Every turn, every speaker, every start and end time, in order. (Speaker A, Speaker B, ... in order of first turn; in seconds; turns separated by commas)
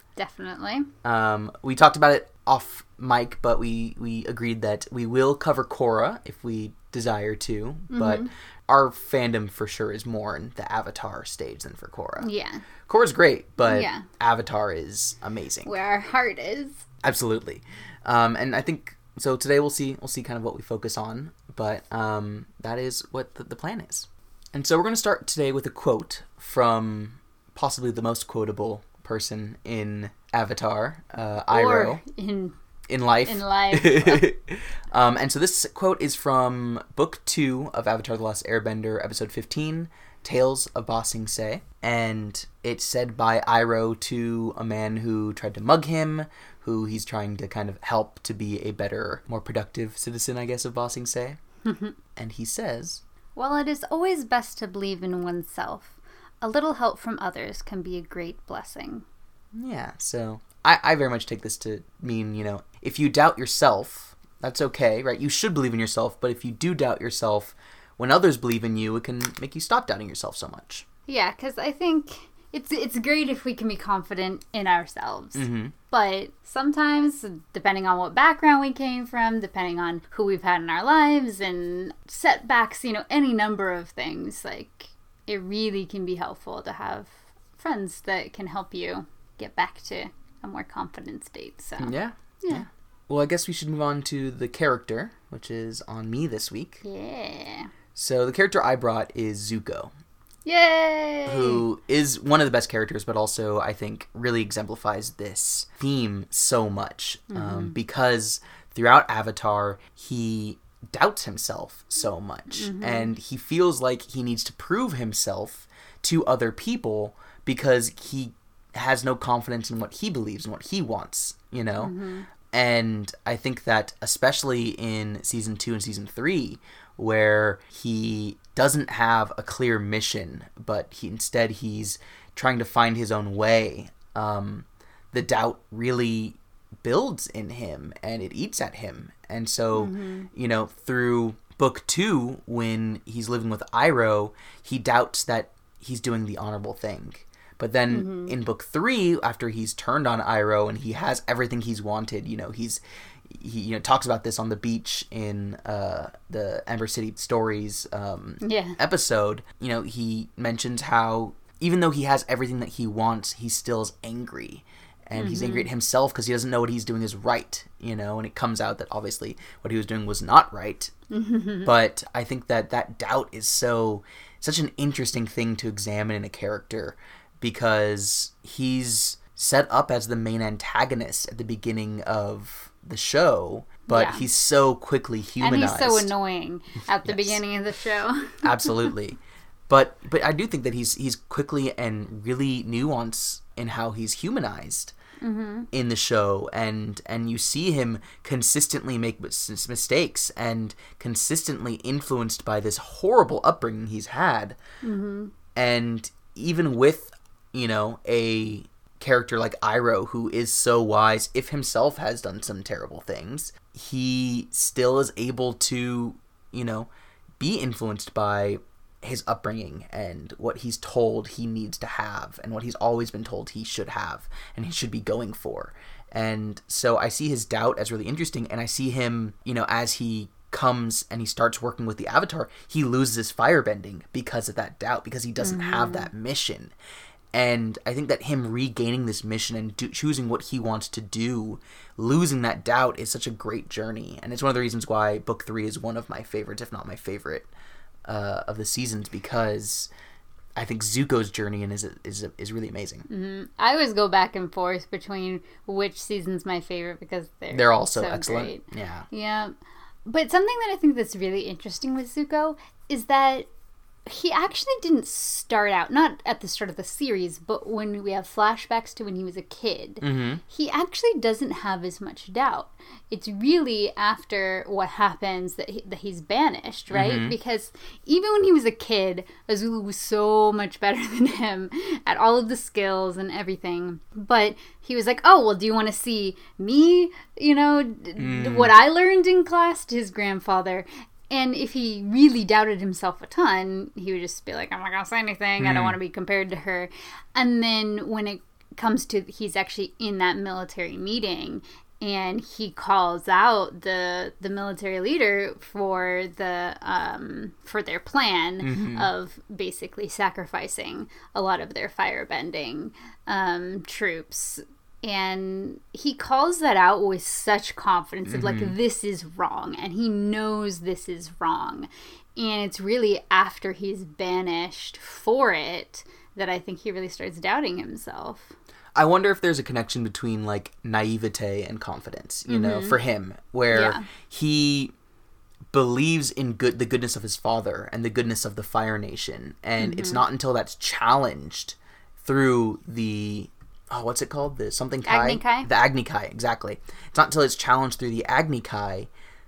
Speaker A: 0.2-0.9, Speaker B: 1.0-12.3, Speaker A: 7.9-8.3, Speaker A: 12.2-12.6, Speaker B: 12.8-15.8, Speaker A: 13.6-14.1, Speaker A: 15.6-16.9, Speaker B: 17.0-32.0, Speaker A: 31.5-32.5, Speaker B: 32.9-51.4, Speaker A: 33.2-34.2, Speaker A: 51.6-51.9, Speaker B: 52.1-53.0, Speaker A: 53.4-59.0, Speaker B: 59.5-70.8, Speaker A: 71.1-92.7, Speaker B: 75.3-75.7, Speaker B: 91.8-96.8, Speaker A: 96.8-97.7, Speaker B: 97.9-99.9, Speaker A: 100.5-101.6, Speaker B: 101.2-121.9, Speaker A: 107.3-107.7, Speaker A: 112.5-113.1, Speaker A: 121.8-122.3, Speaker B: 122.5-170.9, Speaker A: 139.7-140.3, Speaker A: 147.9-148.3, Speaker A: 158.4-158.8, Speaker A: 165.1-165.7, Speaker A: 171.1-171.7, Speaker B: 171.6-186.1, Speaker A: 183.9-184.3, Speaker A: 185.4-188.9, Speaker B: 187.0-187.4, Speaker B: 188.4-194.9, Speaker A: 195.2-195.7, Speaker B: 195.7-204.6, Speaker A: 204.8-205.3, Speaker B: 205.5-236.7, Speaker A: 235.4-236.1, Speaker B: 237.3-247.5, Speaker B: 248.1-249.9, Speaker B: 250.6-253.1, Speaker A: 253.1-259.5, Speaker B: 257.5-259.1, Speaker A: 260.1-263.5, Speaker A: 264.1-328.5, Speaker B: 270.0-270.4, Speaker B: 276.9-277.3, Speaker B: 288.2-288.7, Speaker B: 295.6-296.0, Speaker B: 308.6-309.1, Speaker B: 318.3-318.7, Speaker B: 328.9-334.9, Speaker A: 332.5-332.9, Speaker A: 333.7-334.0, Speaker B: 335.7-349.1, Speaker A: 339.8-340.2, Speaker A: 345.1-345.7